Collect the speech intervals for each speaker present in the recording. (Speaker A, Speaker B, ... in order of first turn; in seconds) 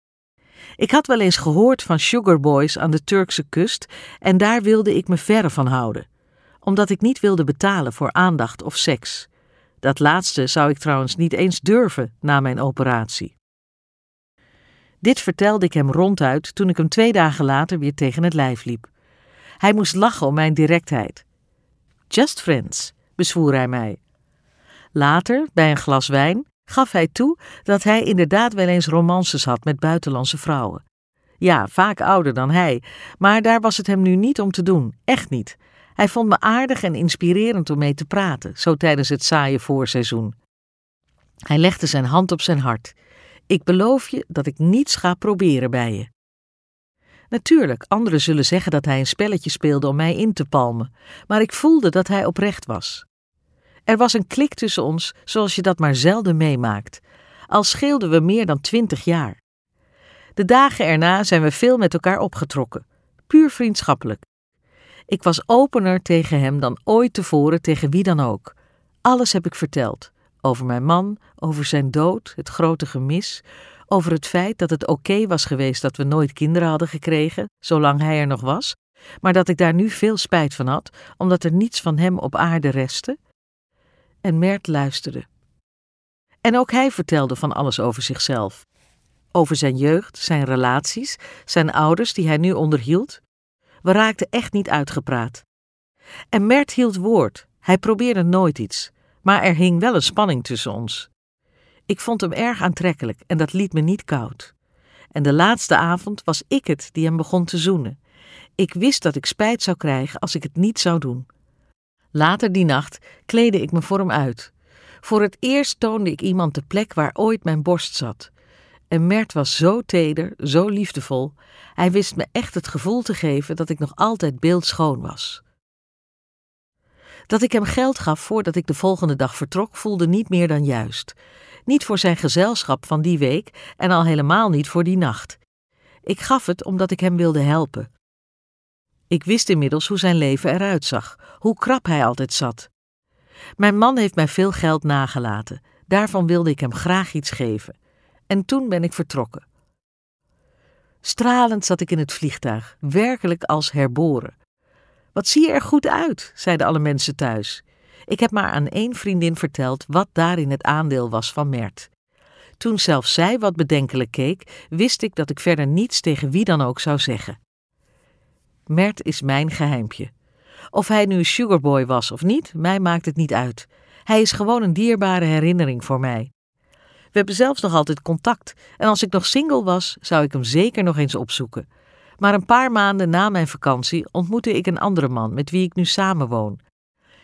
Speaker A: 0.8-6.0, 6.6-9.3, 9.8-13.3, 15.0-18.9, 19.6-21.2, 22.1-24.0, 24.9-30.8, 31.4-40.4, 41.5-43.0, 43.5-46.1, 47.3-53.0, 53.9-59.4, 60.4-64.2, 65.1-83.2, 84.2-85.3, 86.4-88.6, 89.3-93.2, 93.8-95.5, 96.3-101.1, 101.9-104.5, 105.1-108.0, 108.6-111.3, 112.1-118.3, 118.9-125.4, 127.3-135.4, 136.0-137.9, 139.1-142.7, 143.6-147.7, 148.3-149.4, 151.0-154.3, 155.1-161.9, 162.6-167.4, 168.7-170.1, 170.7-176.3, 177.1-181.7, 182.2-186.6